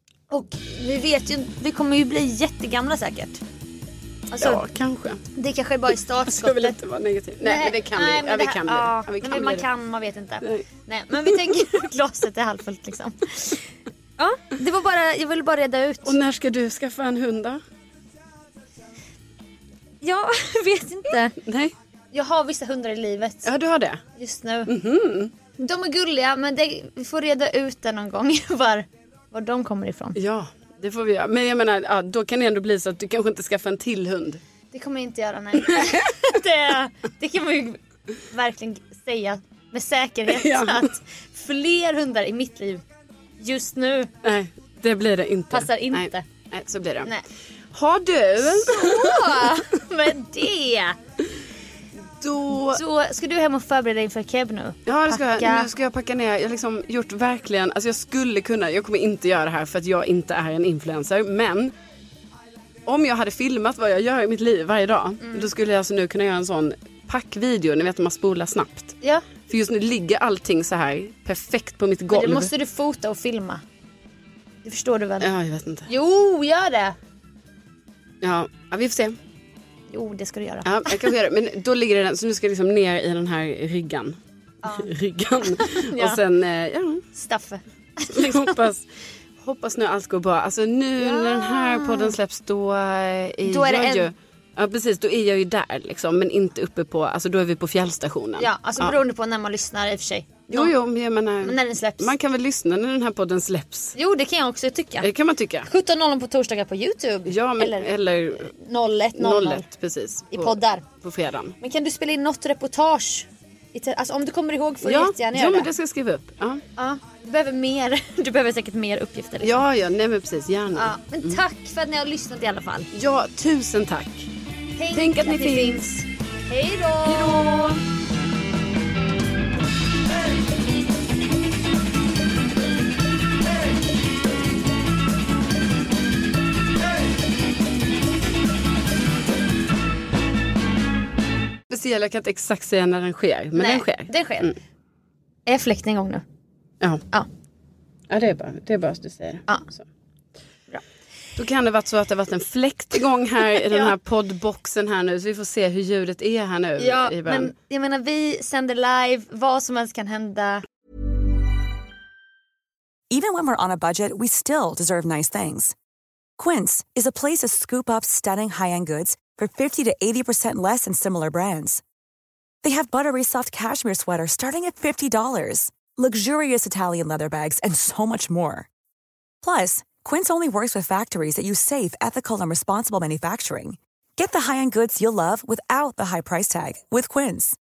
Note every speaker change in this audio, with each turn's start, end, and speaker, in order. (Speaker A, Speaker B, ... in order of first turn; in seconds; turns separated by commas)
Speaker A: 0.3-3.4, Speaker A: 4.3-4.6, Speaker B: 4.4-5.2, Speaker A: 5.3-6.8, Speaker B: 6.3-9.6, Speaker A: 7.4-13.6, Speaker A: 14.2-16.2, Speaker B: 16.1-17.6, Speaker A: 20.0-21.4, Speaker B: 21.4-21.7, Speaker A: 22.1-23.5, Speaker B: 23.4-24.0, Speaker A: 24.1-24.7, Speaker B: 24.7-25.3, Speaker A: 25.6-30.2, Speaker B: 30.1-34.4, Speaker A: 34.7-42.8, Speaker B: 35.6-36.1, Speaker B: 40.3-40.9, Speaker A: 43.4-44.1, Speaker B: 44.2-47.1, Speaker A: 45.5-46.2, Speaker B: 47.7-49.3, Speaker A: 48.4-51.0, Speaker B: 52.2-52.8, Speaker A: 52.5-55.7, Speaker B: 54.9-61.7, Speaker B: 62.9-68.9, Speaker A: 65.2-65.5, Speaker B: 69.5-72.5, Speaker A: 72.1-73.6, Speaker A: 74.6-75.3, Speaker B: 75.2-75.9, Speaker A: 75.9-77.0, Speaker B: 78.2-79.2, Speaker A: 79.9-81.1, Speaker B: 80.6-84.2, Speaker A: 84.6-84.9, Speaker B: 84.7-87.0, Speaker A: 85.5-86.2, Speaker A: 87.1-88.6, Speaker B: 88.1-88.8, Speaker B: 89.4-98.9, Speaker A: 91.0-92.2, Speaker A: 93.4-94.1, Speaker A: 98.4-100.7, Speaker B: 100.5-103.9, Speaker A: 101.4-102.1, Speaker A: 103.9-105.1, Speaker B: 105.0-105.7, Speaker A: 105.6-109.6, Speaker B: 107.3-108.5, Speaker B: 109.2-111.5, Speaker A: 110.3-110.8, Speaker A: 111.6-115.7, Speaker B: 114.8-116.6, Speaker A: 116.8-119.6, Speaker B: 119.4-121.4, Speaker A: 120.7-122.9, Speaker B: 122.9-124.3, Speaker A: 124.8-127.8, Speaker B: 124.9-125.8, Speaker B: 127.1-127.7, Speaker B: 141.7-144.5, Speaker A: 143.5-144.5, Speaker A: 145.4-146.2, Speaker B: 148.1-149.8, Speaker B: 151.4-157.5, Speaker A: 153.5-153.9, Speaker A: 156.8-160.6, Speaker C: 163.1-165.7, Speaker C: 166.4-171.8, Speaker C: 172.6-178.7, Speaker C: 179.4-187.6